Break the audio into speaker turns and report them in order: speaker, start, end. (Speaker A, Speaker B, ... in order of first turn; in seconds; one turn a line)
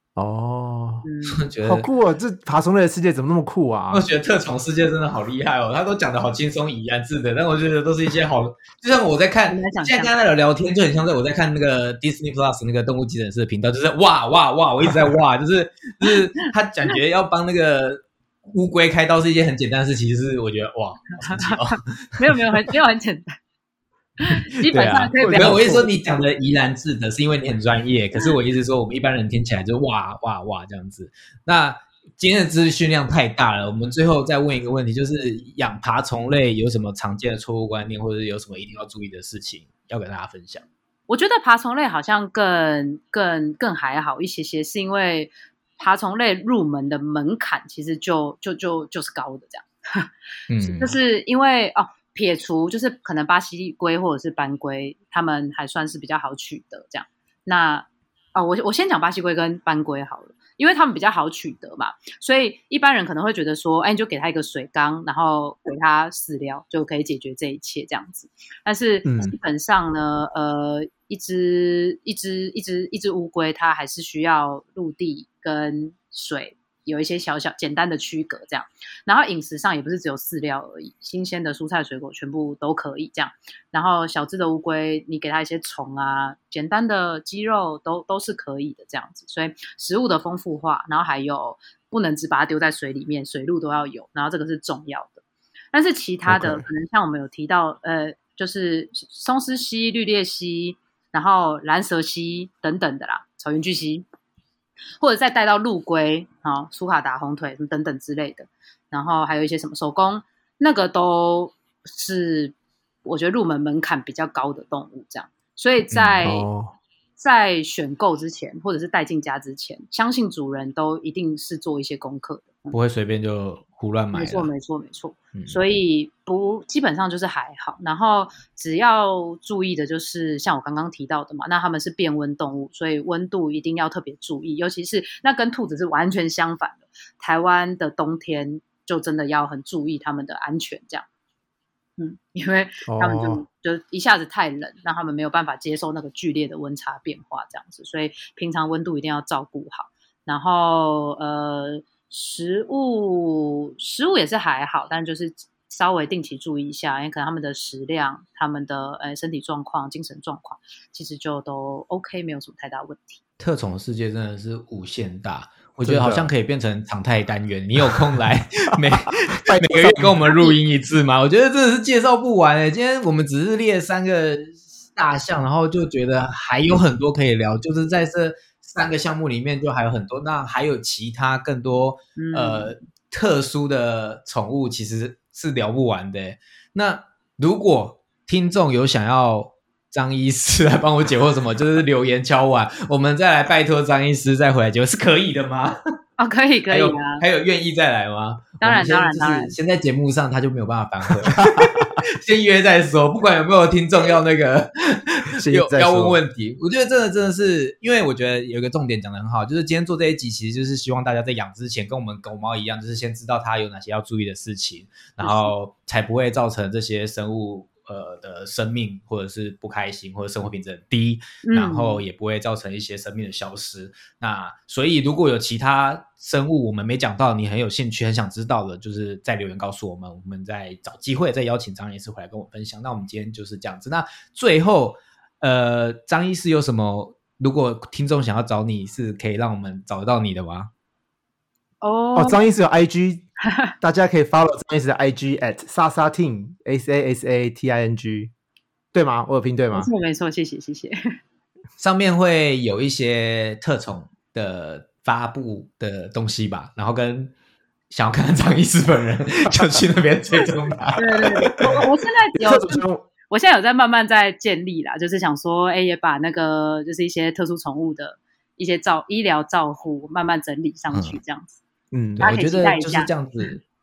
Speaker A: 0.1-1.0
Speaker B: 1.0-1.4
Speaker C: 1.3-1.9
Speaker A: 1.6-4.0
Speaker C: 3.9-22.4
Speaker B: 9.5-10.1
Speaker B: 16.0-16.9
Speaker B: 21.2-23.3
Speaker B: 24.2-25.9
Speaker C: 24.7-40.6
Speaker A: 25.2-25.9
Speaker B: 41.1-50.1
Speaker C: 50.5-51.0
Speaker B: 50.6-95.2
Speaker A: 69.0-69.3
Speaker B: 95.7-104.0
Speaker A: 96.3-96.7
Speaker B: 105.0-112.5
Speaker B: 113.0-116.5
Speaker C: 115.9-116.3
Speaker A: 116.2-116.8
Speaker B: 117.2-122.7
Speaker C: 122.7-124.5
Speaker B: 124.1-141.1
Speaker B: 142.0-163.2
Speaker A: 142.9-143.4
Speaker C: 163.4-195.8
Speaker A: 165.8-166.3
Speaker A: 169.4-170.6
Speaker B: 182.2-182.7
Speaker B: 196.2-197.2
Speaker C: 196.7-240.7
Speaker B: 198.6-199.5
Speaker A: 201.2-201.9
Speaker A: 205.4-206.2
Speaker B: 215.2-215.5
Speaker B: 221.4-222.0
Speaker B: 241.8-242.4
Speaker A: 242.1-243.2
Speaker B: 243.4-243.7
Speaker A: 243.8-248.3
Speaker A: 248.9-249.9
Speaker B: 249.7-251.0
Speaker C: 251.8-257.3
Speaker C: 257.9-261.8
Speaker B: 260.9-271.6
Speaker A: 262.4-263.1
Speaker C: 270.9-271.2
Speaker A: 271.9-272.3
Speaker C: 272.2-273.6
Speaker B: 272.2-273.1